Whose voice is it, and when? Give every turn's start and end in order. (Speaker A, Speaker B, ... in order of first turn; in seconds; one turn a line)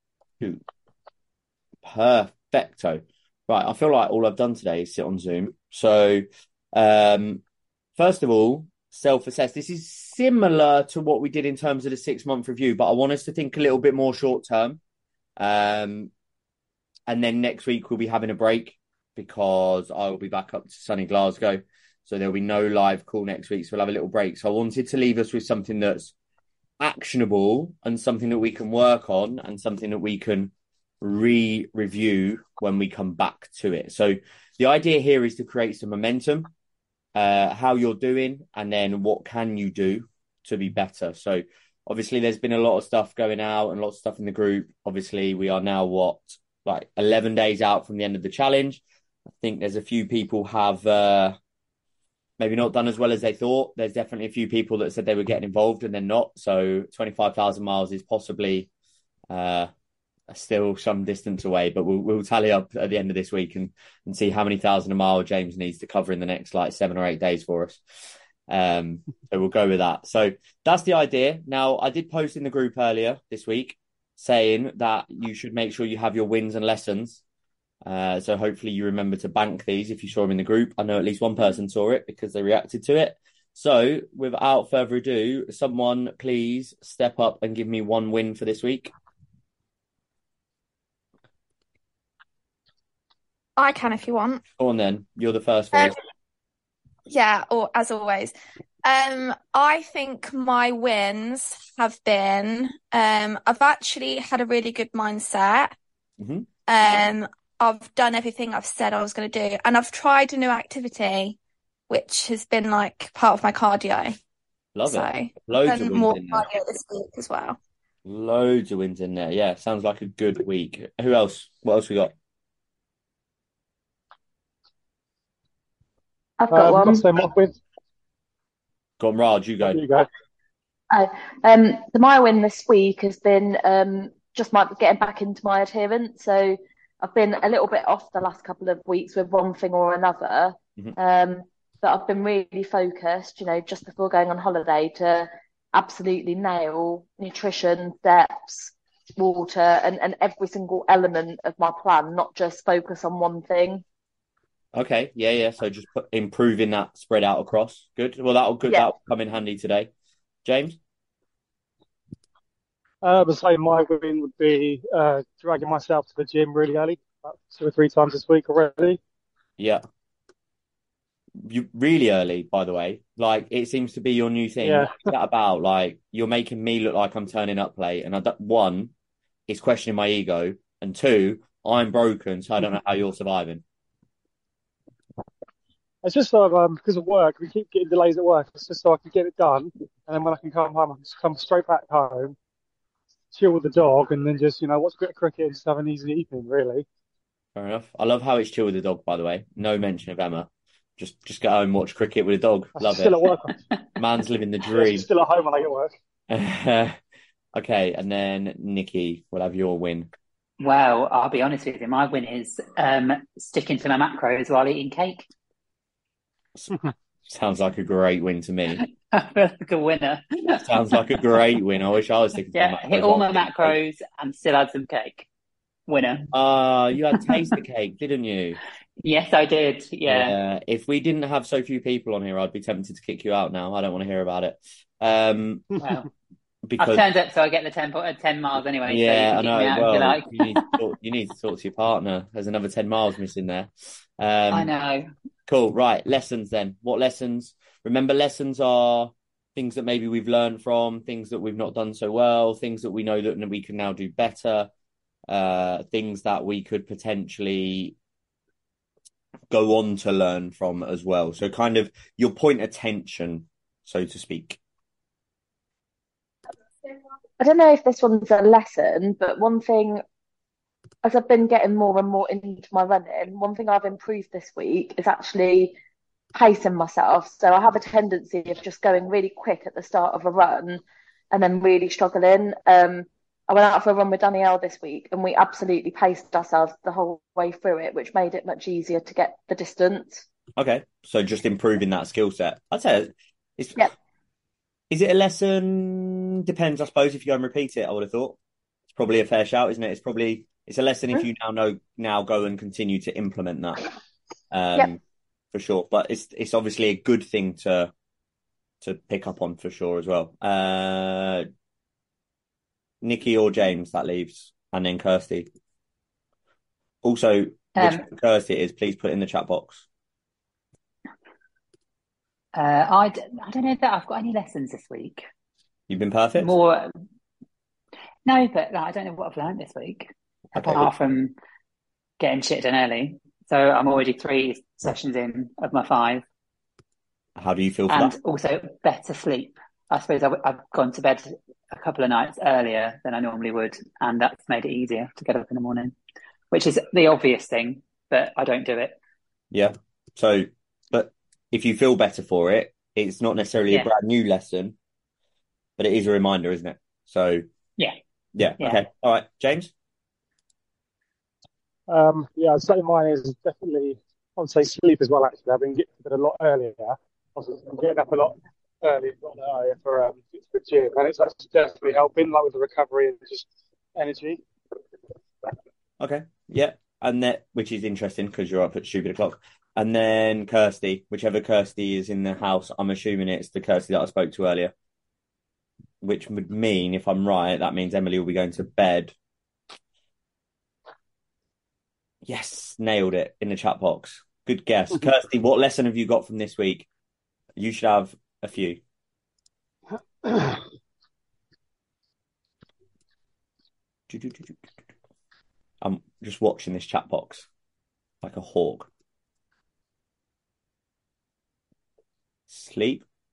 Speaker A: 1.8-7.4
Speaker A: 8.0-14.8
Speaker A: 15.4-16.1
Speaker A: 17.1-26.1
Speaker A: 26.8-36.5
Speaker A: 37.2-48.8
Speaker A: 49.4-51.4
Speaker A: 52.4-58.7
Speaker A: 59.3-59.7
Speaker A: 60.3-67.8
Speaker A: 68.5-77.2
Speaker A: 77.8-88.9
Speaker B: 93.6-94.4
Speaker A: 94.6-96.0
Speaker B: 97.1-98.3
Speaker B: 98.8-105.8
Speaker A: 106.2-106.5
Speaker B: 106.7-111.4
Speaker B: 111.9-114.2
Speaker A: 114.7-116.5
Speaker B: 114.8-117.6
Speaker A: 118.0-122.1
Speaker C: 126.4-127.1
Speaker D: 126.5-127.6
Speaker A: 129.0-129.8
Speaker D: 129.6-130.1
Speaker C: 130.9-153.8
Speaker A: 154.7-159.9
Speaker A: 160.4-160.8
Speaker D: 163.0-169.0
Speaker A: 171.4-178.9
Speaker D: 174.6-175.0
Speaker A: 179.5-183.6
Speaker D: 186.0-192.3
Speaker D: 193.3-196.8
Speaker A: 197.6-203.2
Speaker D: 202.8-203.6
Speaker A: 204.0-205.1
Speaker D: 204.7-205.9
Speaker A: 206.3-207.0
Speaker A: 207.5-210.1
Speaker E: 210.6-215.3
Speaker A: 217.3-218.8
Speaker E: 218.8-221.4
Speaker A: 220.6-223.8
Speaker E: 222.5-225.3
Speaker E: 225.9-226.3
Speaker A: 226.3-228.6
Speaker E: 229.0-230.3
Speaker A: 230.1-235.7
Speaker E: 235.8-236.1
Speaker A: 236.7-237.0
Speaker E: 236.8-240.4
Speaker A: 238.8-244.7
Speaker E: 244.5-245.1
Speaker A: 245.5-254.7
Speaker A: 255.3-257.9
Speaker A: 259.5-264.6
Speaker C: 267.4-270.0
Speaker C: 271.0-275.8
Speaker C: 276.4-290.2
Speaker A: 290.6-293.9
Speaker A: 294.9-298.4
Speaker A: 298.9-303.8
Speaker A: 304.5-305.0
Speaker A: 305.5-307.9
Speaker A: 308.8-311.5
Speaker A: 313.0-315.5
Speaker A: 317.0-319.9
Speaker E: 317.8-318.1
Speaker E: 322.6-325.2
Speaker A: 325.9-326.5
Speaker E: 326.4-326.9
Speaker E: 328.3-331.3
Speaker A: 330.6-330.9
Speaker E: 332.2-336.2
Speaker A: 337.4-338.2
Speaker E: 337.9-345.9
Speaker E: 346.5-349.0
Speaker A: 349.5-354.8
Speaker A: 355.8-357.4
Speaker A: 358.4-359.7
Speaker D: 361.9-374.4
Speaker A: 376.0-384.7
Speaker A: 386.0-389.1
Speaker A: 392.2-396.9
Speaker A: 397.6-398.8
Speaker A: 404.1-404.6
Speaker A: 405.8-407.5
Speaker A: 408.2-408.9
Speaker A: 412.5-413.1